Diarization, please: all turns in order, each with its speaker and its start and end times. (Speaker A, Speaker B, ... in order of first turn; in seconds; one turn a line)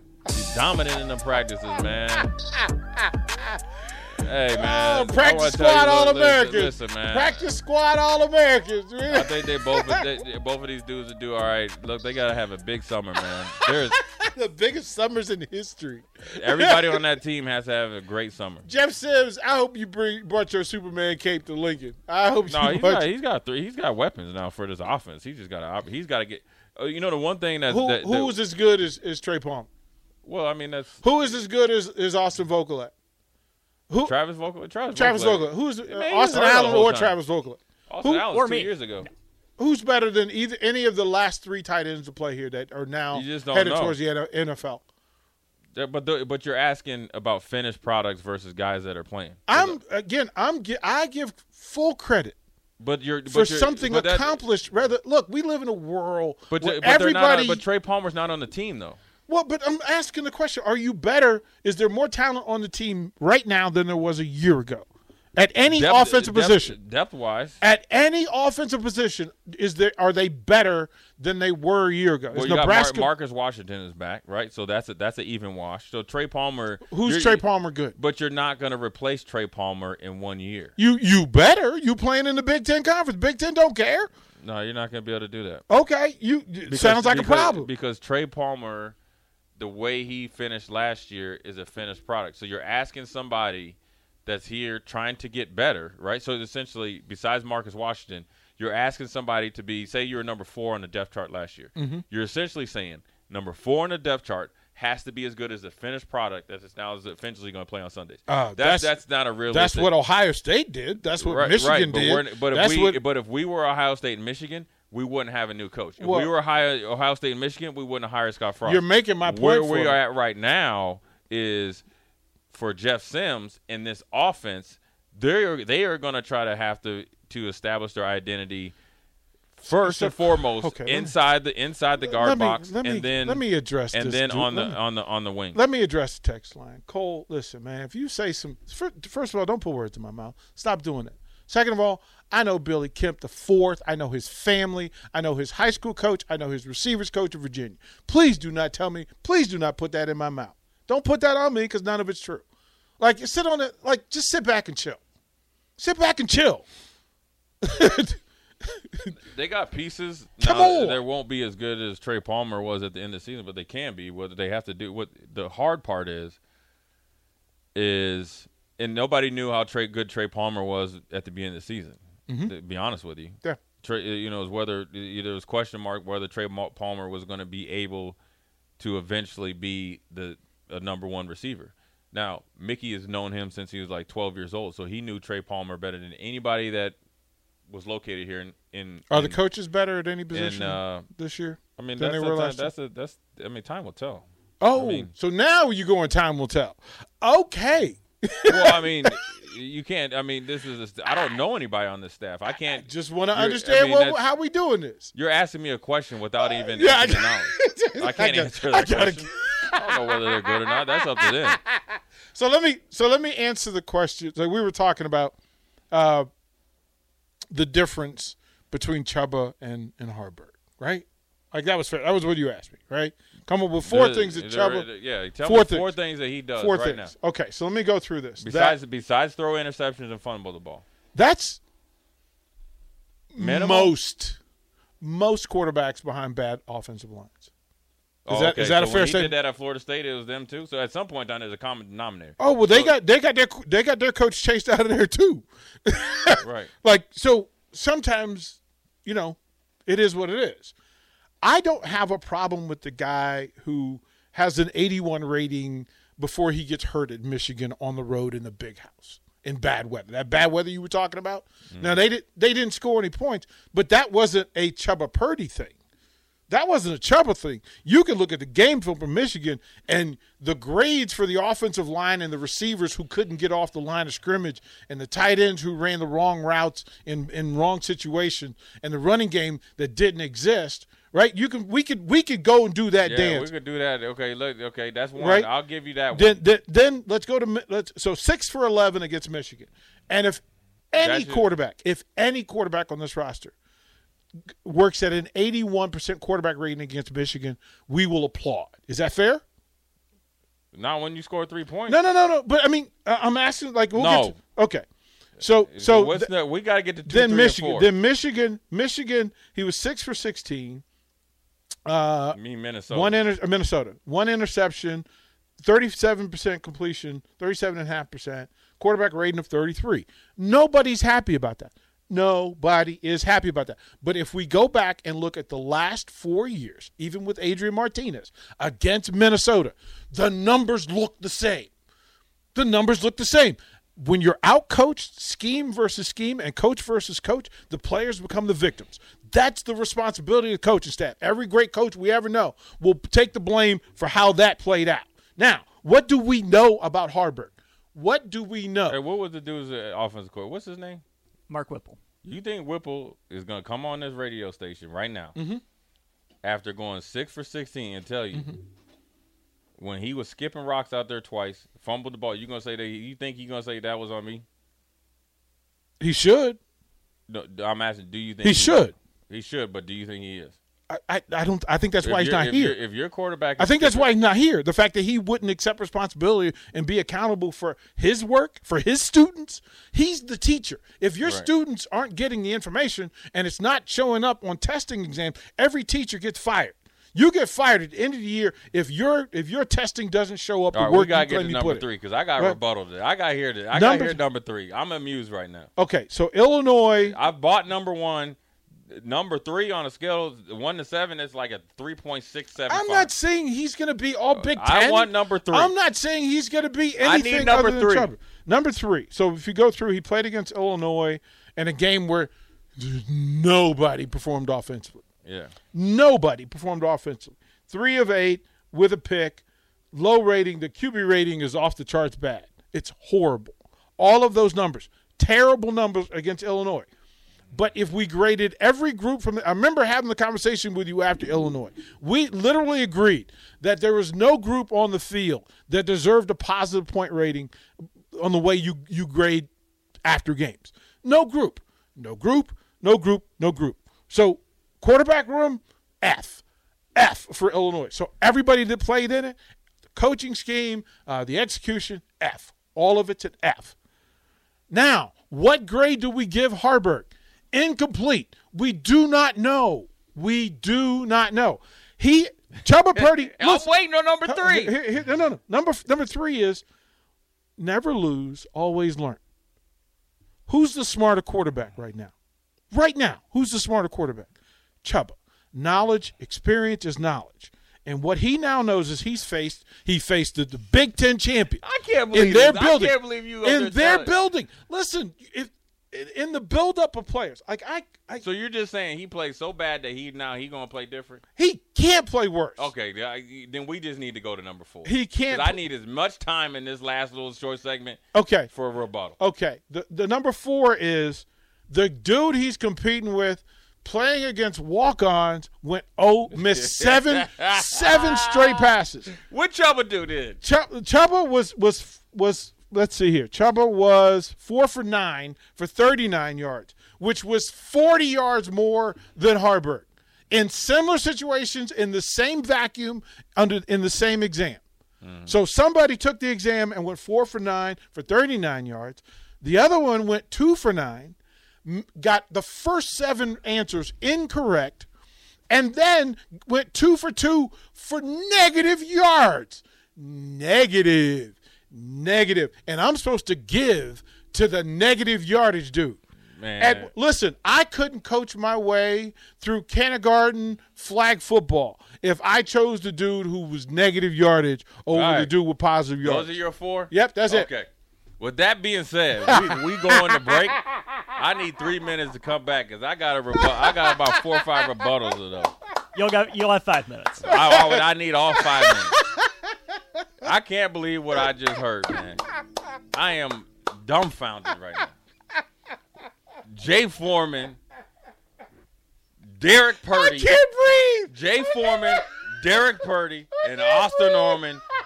Speaker A: 0.3-2.3
Speaker B: 3.0-3.6
Speaker A: 4.0-7.5
Speaker B: 4.5-10.1
Speaker A: 9.1-14.0
Speaker B: 13.7-17.0
Speaker A: 16.3-18.7
Speaker B: 18.6-23.1
Speaker A: 22.5-28.4
Speaker B: 27.7-29.7
Speaker A: 30.2-31.2
Speaker B: 31.0-32.9
Speaker B: 33.9-34.1
Speaker A: 34.0-37.2
Speaker B: 34.9-38.3
Speaker A: 37.9-39.1
Speaker C: 38.3-38.7
Speaker B: 39.6-44.8
Speaker A: 43.1-44.0
Speaker A: 45.8-49.8
Speaker B: 49.5-52.4
Speaker A: 52.8-54.4
Speaker B: 53.3-57.6
Speaker A: 56.5-59.0
Speaker B: 59.3-66.8
Speaker A: 65.7-67.6
Speaker B: 67.6-73.1
Speaker A: 72.3-77.4
Speaker B: 76.9-78.0
Speaker A: 78.0-80.8
Speaker B: 80.8-84.1
Speaker A: 84.4-85.6
Speaker B: 85.7-87.7
Speaker A: 86.7-89.0
Speaker A: 89.6-109.9
Speaker B: 101.8-102.0
Speaker B: 108.3-109.0
Speaker B: 109.5-113.0
Speaker A: 111.2-121.8
Speaker B: 116.0-116.3
Speaker B: 118.7-120.0
Speaker A: 122.5-128.7
Speaker A: 129.6-135.6
Speaker B: 129.7-131.2
Speaker B: 132.0-134.8
Speaker B: 135.5-152.4
Speaker B: 153.0-155.0
Speaker B: 155.8-156.7
Speaker B: 157.6-158.2
Speaker A: 159.1-166.4
Speaker B: 160.4-161.0
Speaker A: 167.8-178.2
Speaker B: 172.3-172.5
Speaker A: 178.8-187.0
Speaker A: 187.7-189.4
Speaker B: 189.1-192.7
Speaker A: 190.3-191.1
Speaker A: 191.8-195.1
Speaker B: 194.6-199.2
Speaker A: 198.5-204.2
Speaker B: 202.7-205.1
Speaker A: 205.1-211.6
Speaker B: 206.4-211.8
Speaker B: 212.3-215.4
Speaker B: 215.9-216.3
Speaker B: 217.5-224.9
Speaker A: 223.8-227.1
Speaker B: 225.4-225.9
Speaker B: 226.6-228.8
Speaker A: 228.4-230.8
Speaker B: 231.1-231.6
Speaker B: 233.3-234.4
Speaker A: 233.4-233.9
Speaker B: 235.0-237.5
Speaker A: 238.3-242.9
Speaker B: 238.3-239.3
Speaker B: 242.4-250.7
Speaker A: 246.4-246.7
Speaker B: 251.4-265.8
Speaker A: 261.7-262.0
Speaker B: 266.5-283.5
Speaker A: 283.0-286.4
Speaker B: 285.2-285.5
Speaker B: 286.1-293.6
Speaker A: 291.0-291.5
Speaker B: 294.6-299.4
Speaker A: 300.7-302.0
Speaker B: 301.9-304.8
Speaker A: 303.9-304.4
Speaker B: 305.4-306.3
Speaker A: 305.4-307.9
Speaker B: 307.1-310.8
Speaker B: 311.9-312.4
Speaker A: 312.3-313.2
Speaker B: 312.9-315.1
Speaker B: 315.6-331.7
Speaker B: 332.6-349.0
Speaker A: 348.9-351.0
Speaker C: 351.5-352.0
Speaker A: 352.2-355.4
Speaker B: 355.4-355.6
Speaker A: 356.4-358.5
Speaker B: 358.3-358.6
Speaker A: 359.8-364.4
Speaker B: 366.0-366.6
Speaker A: 367.3-370.6
Speaker B: 368.4-368.9
Speaker B: 370.9-372.8
Speaker A: 372.0-374.1
Speaker B: 373.6-391.9
Speaker A: 390.7-395.7
Speaker B: 393.7-394.2
Speaker B: 395.8-397.2
Speaker A: 397.0-398.4
Speaker A: 398.9-403.1
Speaker B: 402.7-415.0
Speaker A: 404.3-405.7
Speaker A: 407.0-408.1
Speaker A: 415.2-415.5
Speaker B: 415.7-426.9
Speaker B: 427.5-437.5
Speaker B: 438.1-439.5
Speaker B: 440.1-446.4
Speaker B: 446.9-449.4
Speaker B: 449.9-453.8
Speaker B: 454.7-463.7
Speaker A: 463.0-464.8
Speaker B: 464.2-466.6
Speaker B: 467.6-469.2
Speaker B: 470.5-472.1
Speaker B: 472.7-474.3
Speaker B: 474.8-488.2
Speaker A: 481.6-484.1
Speaker A: 488.2-491.2
Speaker B: 491.4-492.7
Speaker A: 492.6-499.2
Speaker B: 494.8-495.6
Speaker B: 498.1-498.5
Speaker B: 499.2-509.1
Speaker A: 506.4-510.4
Speaker B: 510.4-524.6
Speaker A: 525.0-525.4
Speaker B: 525.3-534.9
Speaker B: 535.5-546.0
Speaker A: 546.4-546.9
Speaker B: 546.6-556.4
Speaker A: 554.9-555.3
Speaker A: 556.0-557.7
Speaker B: 556.9-557.5
Speaker A: 558.2-565.5
Speaker B: 559.3-560.0
Speaker C: 566.0-567.6
Speaker A: 567.2-569.0
Speaker B: 567.3-567.9
Speaker A: 570.2-572.2
Speaker A: 572.9-574.9
Speaker A: 576.5-577.6
Speaker A: 579.3-580.4
Speaker B: 580.0-581.1
Speaker A: 581.1-584.6
Speaker B: 581.7-582.0